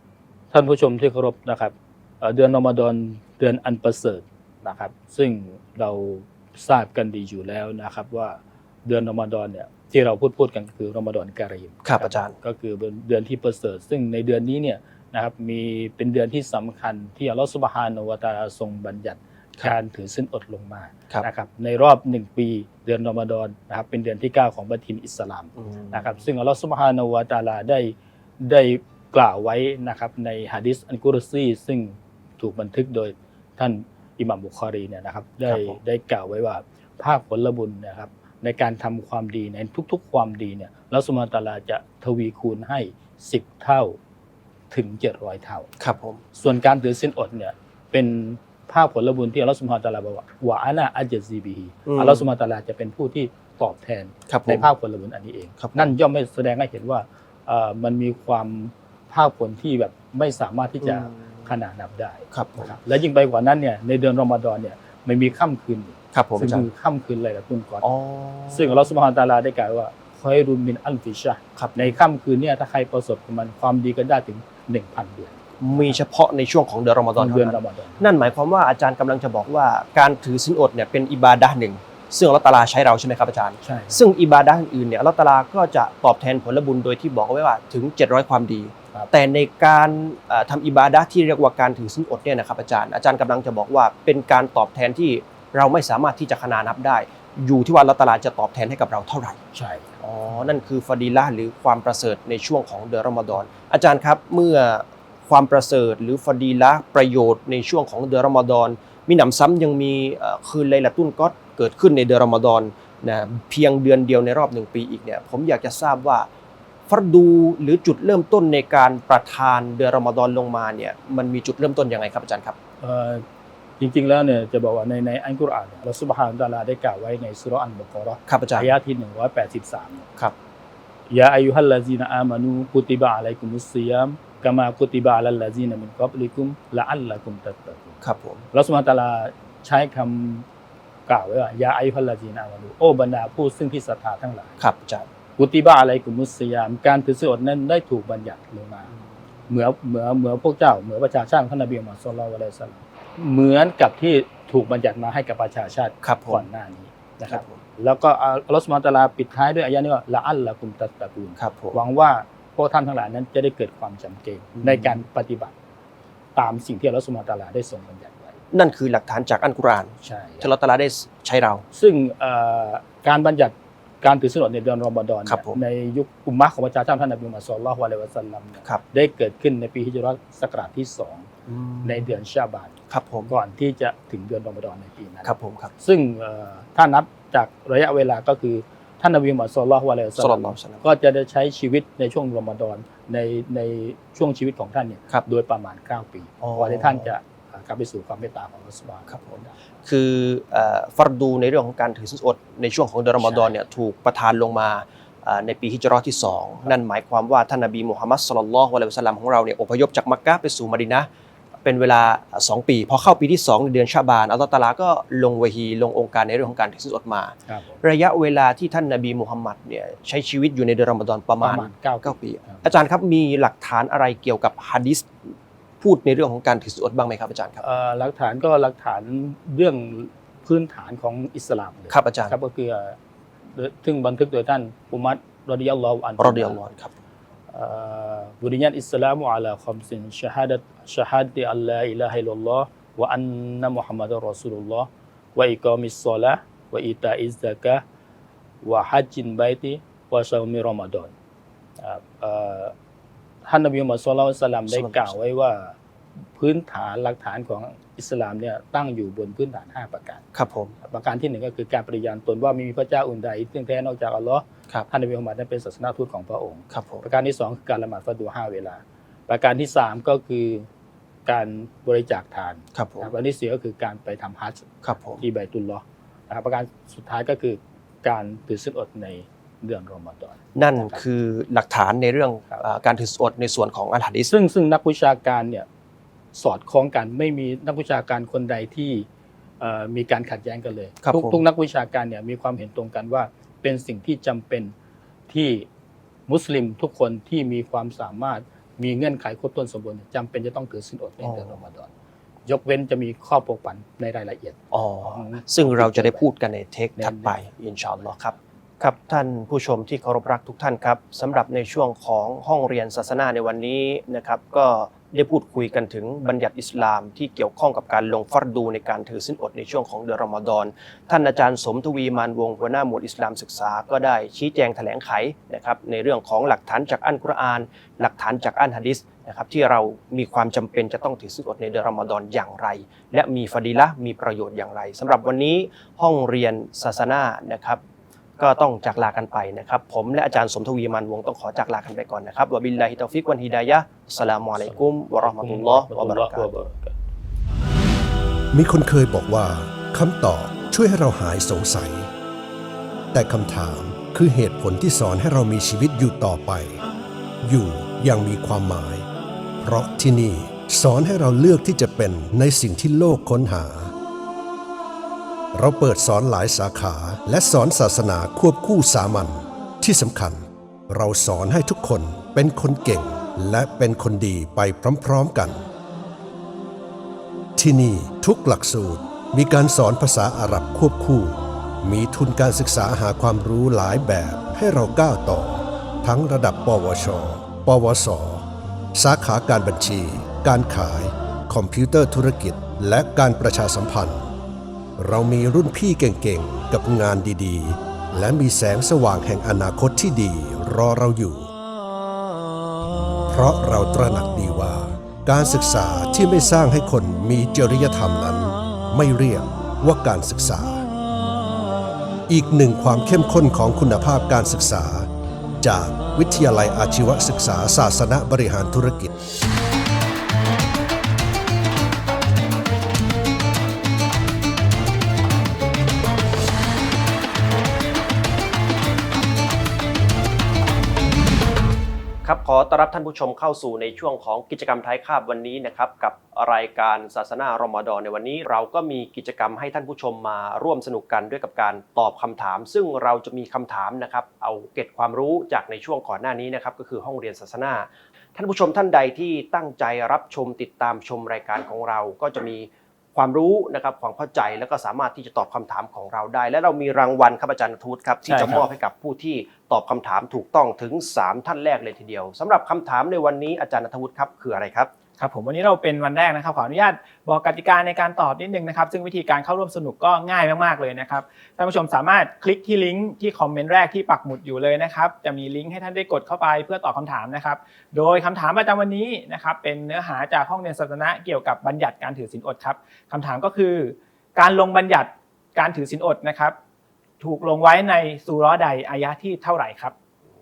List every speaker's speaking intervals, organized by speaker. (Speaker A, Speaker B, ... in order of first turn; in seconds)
Speaker A: 0.5-44.0, 44.7-45.7, 46.3-67.8, 68.5-76.0, 77.2-78.3, 83.6-84.0, 99.5-100.5, 122.8-123.2, 123.8-130.1, 131.1-138.0, 138.5-140.4, 141.1-144.6, 145.4-148.9, 149.5-165.5, 166.3-168.4, 170.0-170.5, 171.7-181.3, 181.8-182.7, 183.3-199.5, 203.2-203.5, 217.5-217.8, 221.4-222.7, 227.6-233.0, 233.5-236.6, 237.5-247.8, 248.6-251.1, 251.8-252.7, 253.4-255.8, 256.4-260.2, 260.8-270.7, 271.2-281.0, 284.3-285.7, 286.3-289.1, 289.6-294.7, 295.3-295.7, 296.3-301.9, 302.4-306.3, 307.0-307.4, 344.6-346.9
Speaker B: 11.8-12.3, 35.5-35.8, 45.8-46.2, 51.9-52.2, 54.3-54.6, 55.6-55.9, 60.8-61.1, 62.3-62.7, 66.1-66.7, 67.8-68.8, 71.5-71.9, 75.6-99.4, 100.0-116.3, 116.9-122.5, 128.3-128.7, 138.0-138.4, 144.6-145.1, 156.0-156.4, 157.2-157.6, 161.4-161.8, 164.6-165.0, 168.5-171.6, 175.2-175.6, 181.5-182.1, 182.9-183.3, 185.2-185.7, 190.2-190.8, 196.4-197.1, 199.1-211.1, 211.6-225.1, 225.8-227.6, 231.9-232.3, 236.2-236.9, 254.7-255.1, 260.3-260.7, 266.7-267.0, 272.7-273.1, 274.8-275.2, 280.5-284.3, 291.0-291.4, 301.2-301.6, 304.7-337.8, 338.4-346.5, 432.2-464.9
Speaker C: 348.5-352.1, 353.1-356.8, 357.4-359.1, 359.6-363.9, 365.5-375.7, 377.6-394.3, 395.0-401.5, 403.3-410.8, 412.3-415.1, 415.6-419.1
Speaker D: 458.3-458.7, 465.2-486.6, 487.2-489.9